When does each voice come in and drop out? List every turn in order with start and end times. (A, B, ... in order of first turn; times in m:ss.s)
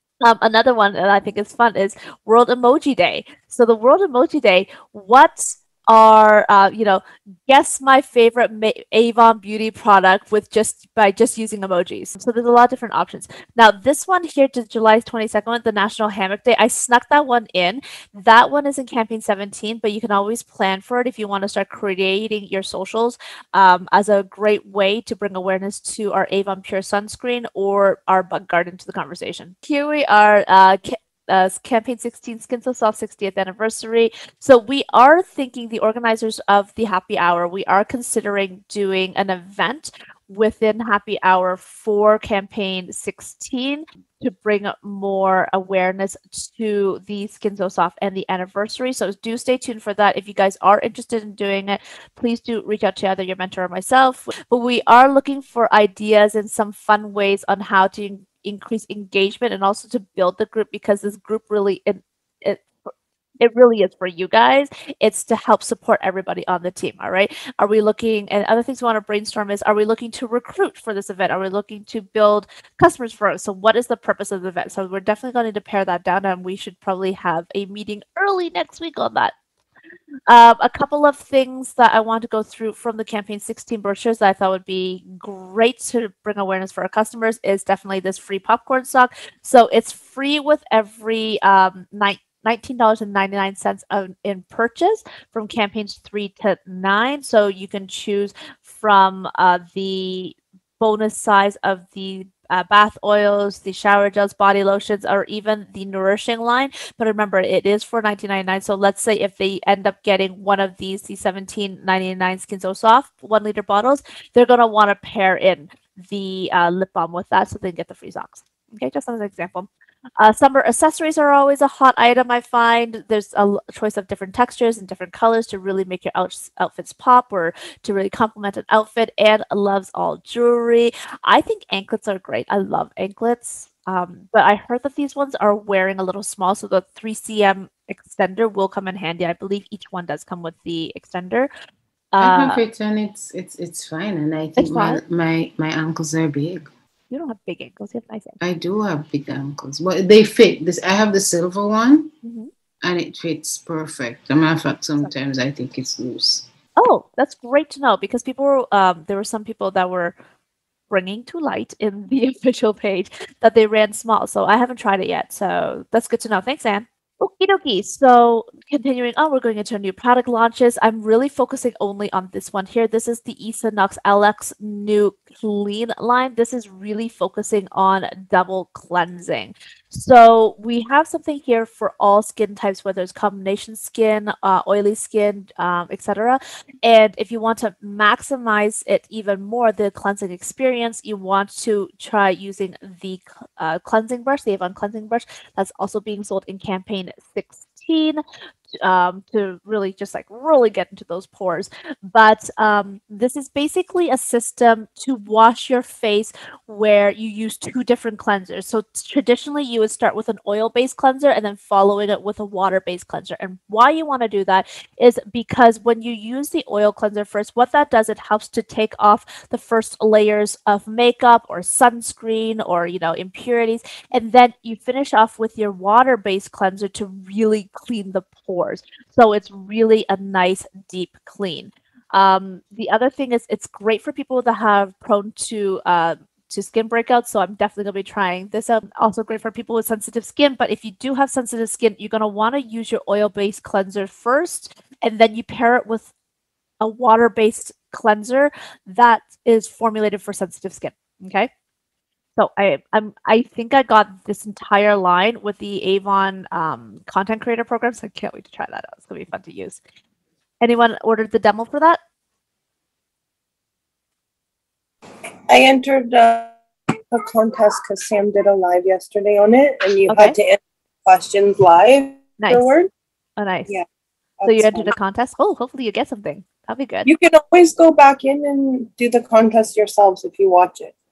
0:00.2-1:19.3 A
1:20.3-1:59.7 A
2:00.2-2:21.5 A
2:22.1-2:22.6 A
2:22.2-2:26.7 B
2:24.6-2:25.0 A
2:27.1-2:28.4 A
2:28.4-2:32.1 B
2:32.2-2:32.5 A
2:32.8-2:36.5 B
2:36.8-2:40.2 A
2:40.9-3:18.2 A
3:18.8-4:06.1 A
4:06.8-4:11.5 A
4:12.4-4:19.8 A
4:20.6-4:22.0 A
4:25.5-4:26.6 C
4:27.1-4:32.9 C
4:30.1-4:30.4 A
4:32.4-4:32.7 A
4:33.4-4:33.7 A
4:34.4-4:34.9 C
4:34.5-4:37.1 A
4:37.1-4:40.9 C